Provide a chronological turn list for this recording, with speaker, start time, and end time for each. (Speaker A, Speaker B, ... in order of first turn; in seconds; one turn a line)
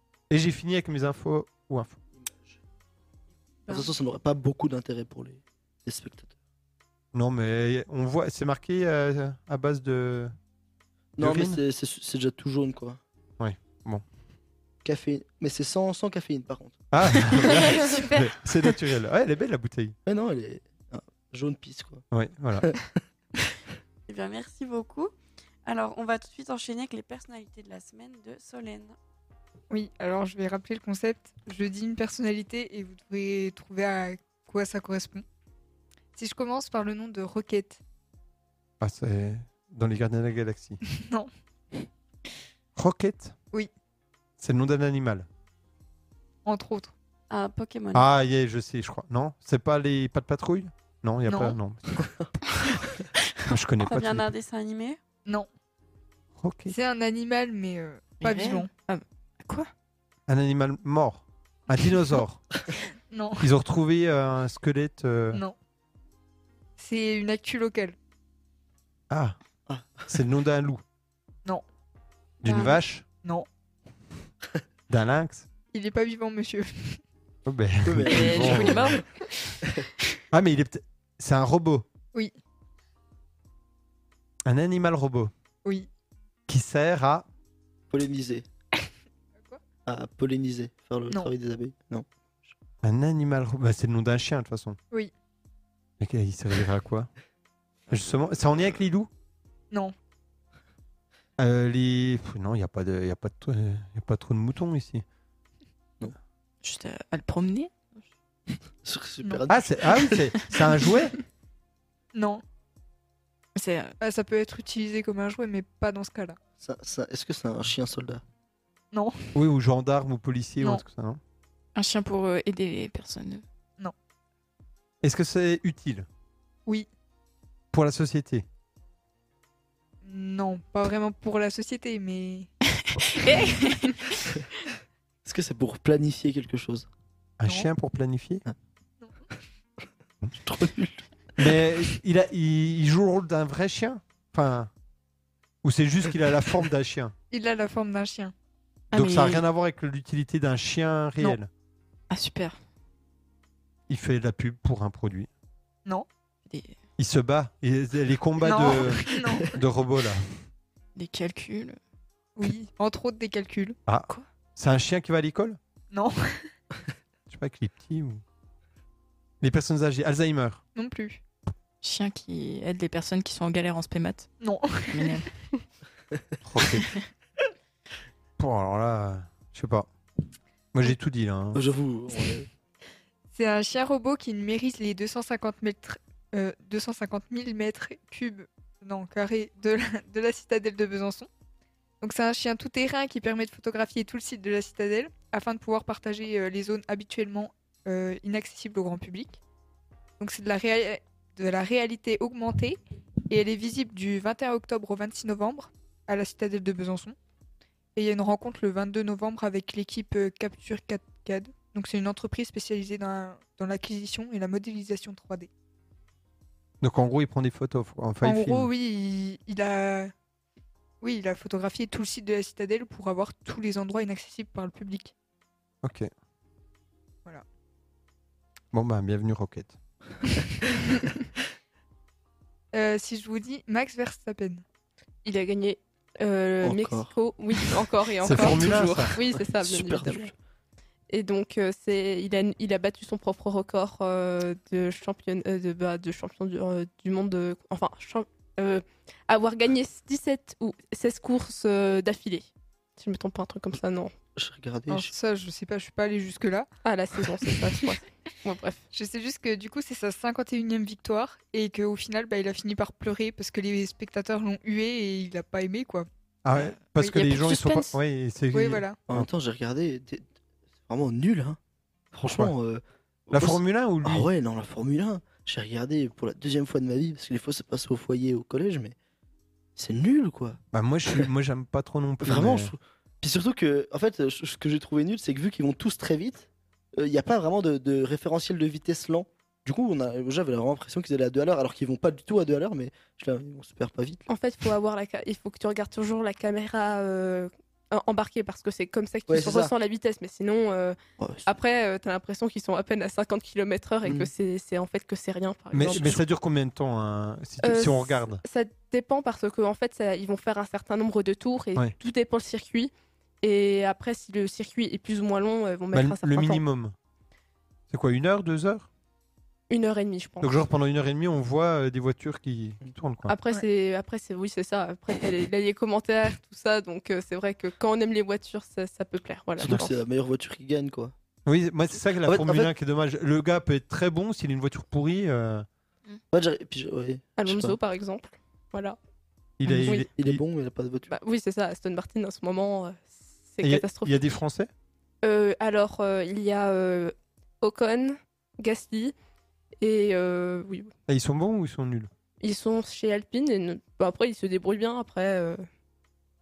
Speaker A: 0.3-2.0
Speaker B: 2.2-2.6
Speaker B: 3.7-6.3
Speaker A: 7.1-10.3
Speaker B: 11.2-13.0
Speaker A: 11.2-11.6
Speaker A: 13.4-14.0
Speaker B: 14.8-16.8
Speaker A: 16.9-19.9
Speaker C: 17.5-18.3
Speaker B: 20.1-22.0
Speaker A: 22.1-22.7
Speaker B: 22.6-22.9
Speaker D: 24.1-25.1
Speaker D: 25.6-28.9
Speaker E: 29.7-35.2
Speaker E: 36.1-37.8
Speaker A: 38.8-40.8
Speaker E: 40.8-41.3
Speaker A: 42.8-43.3
Speaker A: 44.4-45.3
Speaker E: 46.4-46.9
Speaker D: 47.3-48.0
Speaker A: 47.9-52.1
Speaker E: 51.3-51.6
Speaker A: 53.5-54.3
Speaker D: 53.8-55.0
Speaker A: 56.4-56.7
Speaker E: 56.7-58.7
Speaker C: 58.2-59.7
Speaker A: 60.3-62.4
Speaker E: 63.1-63.5
Speaker A: 63.4-65.4
Speaker E: 66.8-68.0
Speaker A: 69.1-69.4
Speaker B: 69.7-70.1
Speaker A: 70.1-70.8
Speaker A: 72.4-73.0
Speaker A: 74.9-75.5
Speaker E: 75.7-77.0
Speaker A: 77.5-79.0
Speaker B: 77.8-79.0
Speaker C: 78.1-79.0
Speaker A: 80.3-81.8
Speaker A: 84.5-85.3
Speaker E: 85.6-85.9
Speaker A: 86.5-87.2
Speaker B: 87.9-88.5
Speaker B: 89.8-92.5
Speaker A: 92.8-94.8
Speaker A: 96.0-97.1
Speaker A: 97.9-99.1
Speaker A: 101.4-105.0
Speaker C: 106.6-108.0
Speaker B: 108.8-110.4
Speaker A: 109.5-111.1
Speaker E: 112.1-112.4
Speaker C: 113.5-113.9
Speaker E: 114.0-116.4
Speaker B: 116.6-118.2
Speaker E: 118.9-119.3
Speaker A: 119.3-121.2
Speaker C: 121.7-123.4
Speaker A: 125.0-126.1
Speaker A: 127.7-128.4
Speaker E: 130.0-132.5
Speaker C: 133.1-134.1
Speaker B: 135.2-136.9
Speaker A: 137.4-138.4
Speaker E: 137.4-137.7
Speaker B: 140.4-141.1
Speaker A: 141.4-144.7
Speaker A: 145.6-147.1
Speaker E: 147.3-148.3
Speaker C: 148.9-149.4
Speaker A: 148.9-151.5
Speaker C: 152.1-152.6
Speaker A: 153.9-155.3
Speaker C: 156.5-156.8
Speaker A: 157.0-160.4
Speaker E: 158.4-159.5
Speaker C: 160.9-161.8
Speaker E: 162.3-163.8
Speaker A: 163.9-165.6
Speaker E: 165.9-166.5
Speaker A: 167.3-168.2
Speaker A: 169.4-170.6
Speaker E: 170.7-171.2
Speaker C: 171.8-174.3
Speaker E: 174.4-175.2
Speaker C: 174.9-175.3
Speaker A: 176.5-176.9
Speaker A: 178.4-179.9
Speaker A: 180.7-181.6
Speaker B: 181.5-182.5
Speaker E: 183.3-191.3
Speaker E: 192.0-199.4
Speaker E: 200.2-207.2
Speaker E: 207.9-215.5
Speaker A: 216.8-218.7
Speaker E: 218.2-220.1
Speaker E: 221.0-225.1
Speaker A: 225.8-226.1
Speaker A: 228.7-229.8
Speaker E: 232.7-234.6
Speaker F: 235.2-240.3
Speaker B: 236.6-237.1
Speaker A: 238.2-239.2
Speaker B: 238.3-240.3
Speaker F: 241.1-254.1
Speaker B: 254.3-255.1
Speaker E: 254.9-256.7
Speaker F: 256.8-258.9
Speaker E: 258.9-266.1
Speaker A: 266.4-269.2
Speaker C: 266.5-267.9
Speaker E: 268.5-269.0
Speaker B: 269.1-270.3
Speaker B: 270.9-271.6
Speaker B: 272.1-278.9
Speaker A: 273.3-274.3
Speaker B: 279.8-280.6
Speaker A: 280.7-282.7
Speaker B: 282.2-294.3
Speaker F: 294.3-306.2
Speaker B: 299.3-299.7
Speaker B: 301.2-301.5
Speaker B: 304.0-304.3
Speaker A: 305.7-308.4
Speaker B: 305.8-306.2
Speaker F: 307.6-316.6
Speaker A: 315.9-316.9
Speaker A: 317.9-318.9
Speaker F: 319.7-320.6
Speaker A: 320.4-323.3
Speaker F: 323.3-329.9
Speaker B: 329.6-331.1
Speaker A: 329.6-329.9
Speaker A: 331.4-335.6
Speaker B: 332.2-332.7
Speaker B: 336.3-337.8
Speaker F: 337.4-339.0
Speaker A: 339.6-340.4
Speaker B: 339.7-341.1
Speaker F: 341.1-344.2
Speaker A: 343.6-344.7
Speaker F: 345.2-349.1
Speaker F: 349.8-350.9
Speaker A: 351.1-352.1
Speaker F: 352.4-355.6